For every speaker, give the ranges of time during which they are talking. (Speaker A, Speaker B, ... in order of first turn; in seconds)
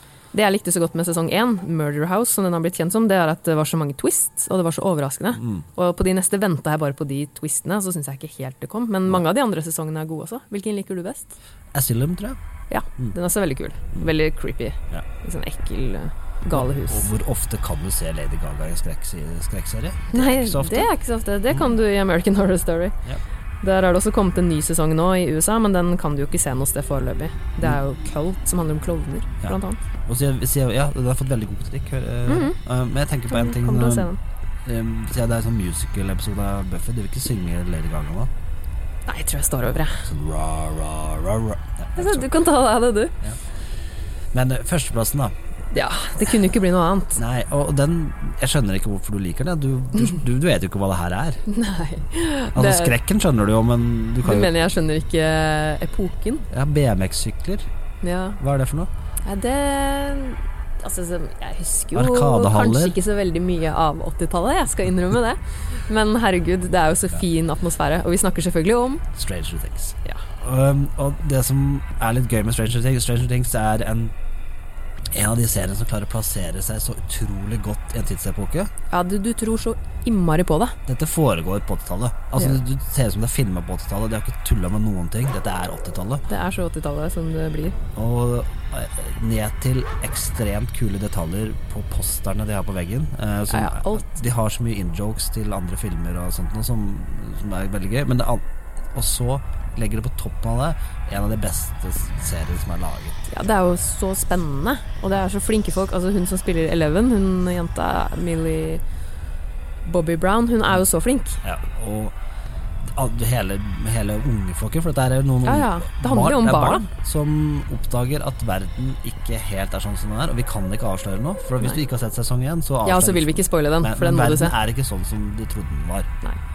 Speaker A: 0.3-11.3, 12.7-17.1, 20.1-23.0, 23.6-29.8, 32.3-32.6, 33.3-34.2, 39.1-40.1, 42.0-43.2, 45.7-47.2, 51.5-53.0, 54.2-56.5, 58.0-58.4, 59.3-69.0, 78.9-80.8, 86.3-87.8, 93.5-94.2, 103.3-108.8, 109.8-111.4, 115.4-116.9, 122.8-124.6
Speaker B: 5.4-5.7, 11.7-12.4, 16.5-20.9, 29.4-34.1, 34.6-38.3, 40.0-42.4, 44.3-45.4, 47.2-51.4, 52.5-54.5, 56.5-57.7, 58.4-58.9, 61.9-63.0, 69.1-74.1, 75.1-78.7, 80.9-86.2, 88.0-103.2, 111.4-112.2, 112.9-126.1